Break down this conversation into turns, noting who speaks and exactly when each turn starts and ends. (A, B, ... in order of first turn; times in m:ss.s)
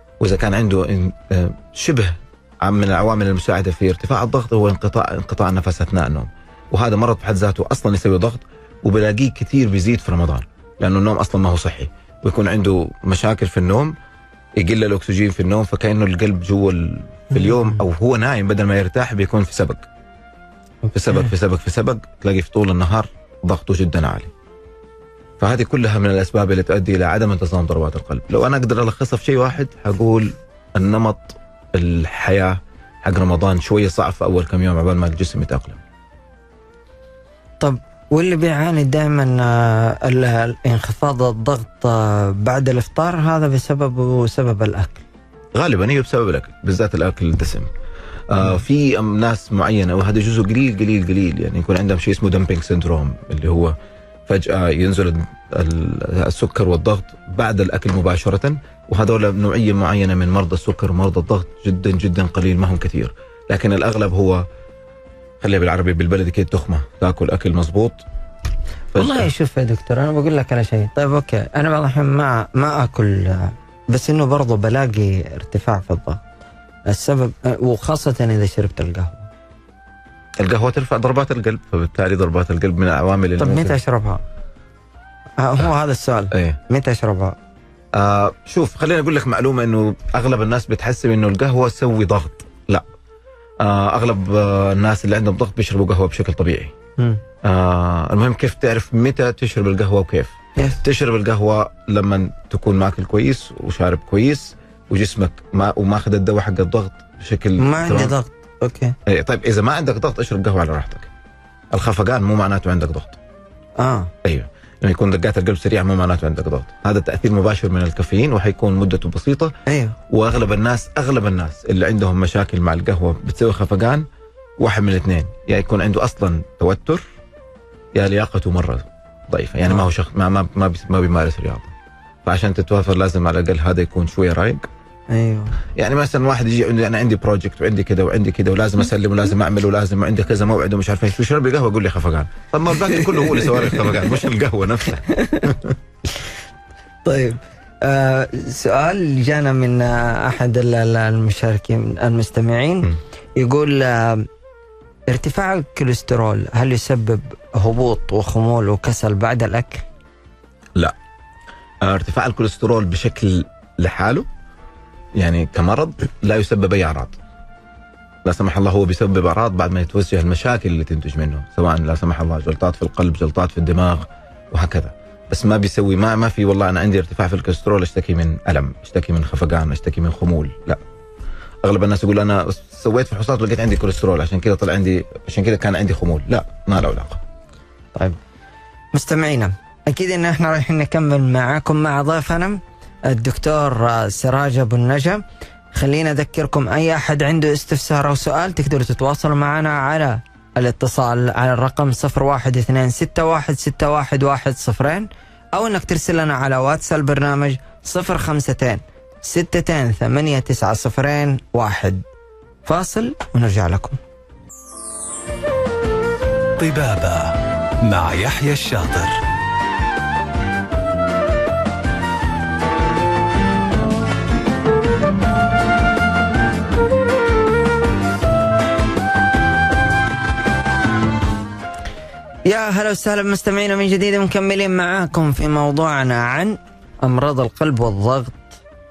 0:00.2-0:13.9 A
0:14.6-0:19.9 A
0:17.3-0:17.8 B
0:20.8-0:21.3 B
0:20.9-0:24.3 A
0:25.4-0:35.8 A
0:37.6-0:45.0 B
0:45.5-0:47.7 A
0:48.3-0:53.8 A
0:54.3-1:04.4 A
1:05.4-1:08.0 A
1:08.9-1:09.3 A
1:08.9-1:16.2 B
1:16.9-1:19.3 B
1:20.4-1:23.8 A
1:23.4-1:24.2 B
1:25.4-1:27.4 B
1:26.3-1:26.6 A
1:27.9-1:32.8 A
1:33.6-1:36.7 A
1:37.4-1:48.1 A
1:47.6-1:48.9 B
1:49.0-1:51.1 A
1:51.7-1:53.2 A
1:53.8-1:54.1 B
1:54.2-1:59.5 A
1:59.7-1:59.9 B
2:00.1-2:04.0 A
2:04.6-2:07.0 A
2:07.9-2:11.7 A
2:12.2-2:14.7 A
2:15.1-2:15.5 B
2:15.8-2:25.7 A
2:22.8-2:24.0 B
2:25.0-2:25.5 B
2:27.0-2:34.3 B
2:35.1-2:39.8 B
2:41.8-2:44.3 A
2:45.2-2:47.2 A
2:48.2-3:00.8 A
3:01.6-3:07.2 A
3:08.9-3:15.2 B
3:15.7-3:32.0 B
3:32.6-3:34.0 B
3:36.6-3:39.2 C
3:52.4-3:58.6 B